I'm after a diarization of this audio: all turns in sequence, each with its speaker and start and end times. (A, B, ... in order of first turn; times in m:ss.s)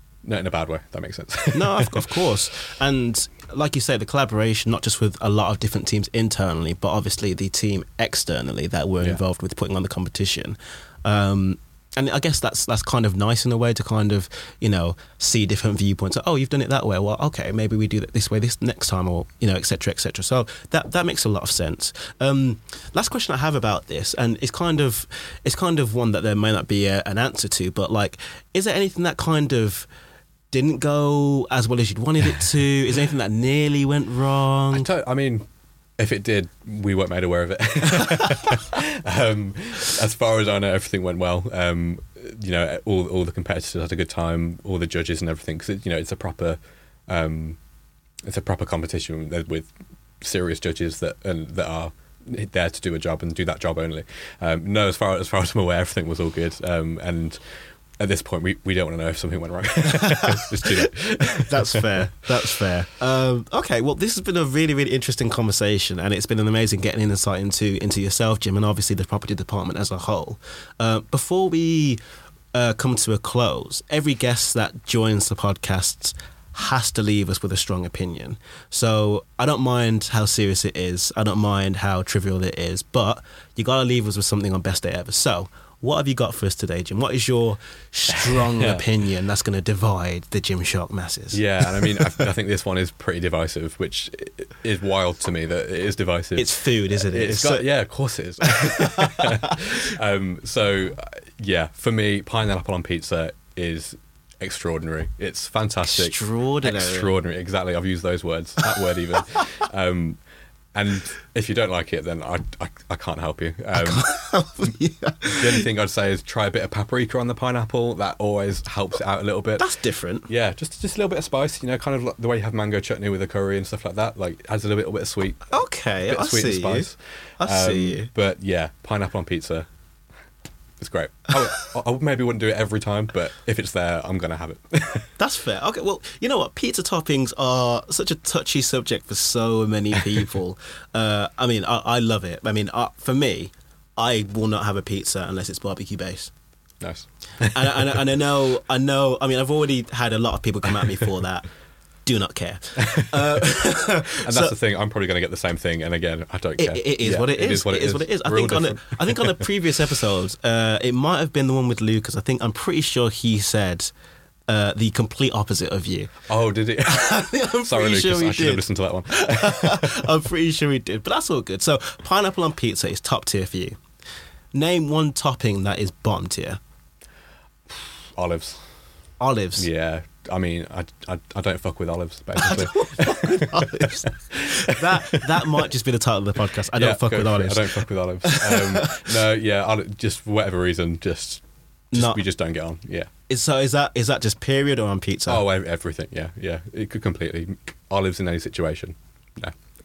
0:00.2-0:02.3 A
0:01.5-0:29.9 B
0:30.5-0:34.9 B
0:34.7-0:35.4 A
0:36.0-0:47.6 A
0:48.2-0:57.4 A
0:58.0-1:01.9 A
0:59.9-1:12.0 B
1:12.5-1:32.2 B
1:28.1-1:28.8 A
1:31.3-1:50.2 A
1:36.4-1:37.6 B
1:38.6-1:39.6 B
1:45.8-1:47.1 B
1:50.7-1:54.0 A
1:53.7-1:55.6 B
1:55.3-1:59.7 A
1:59.6-2:00.3 B
2:00.3-2:05.4 A
2:05.5-2:08.1 B
2:06.1-2:09.7 A
2:10.8-2:15.1 A
2:15.2-2:26.3 B
2:26.8-2:27.6 A
2:27.4-2:31.5 B
2:32.0-2:34.5 B
2:33.0-2:33.4 A
2:34.2-2:39.4 A
2:36.6-2:43.9 B
2:44.5-2:46.1 B
2:46.3-2:50.1 A
2:46.8-2:53.8 B
2:54.5-2:56.6 B
2:57.7-2:58.6 A
2:59.2-2:59.7 B
2:59.6-3:05.2 A
3:02.4-3:09.1 B
3:06.7-3:13.1 A
3:11.9-3:12.2 B
3:13.3-3:15.4 B
3:15.3-3:19.6 A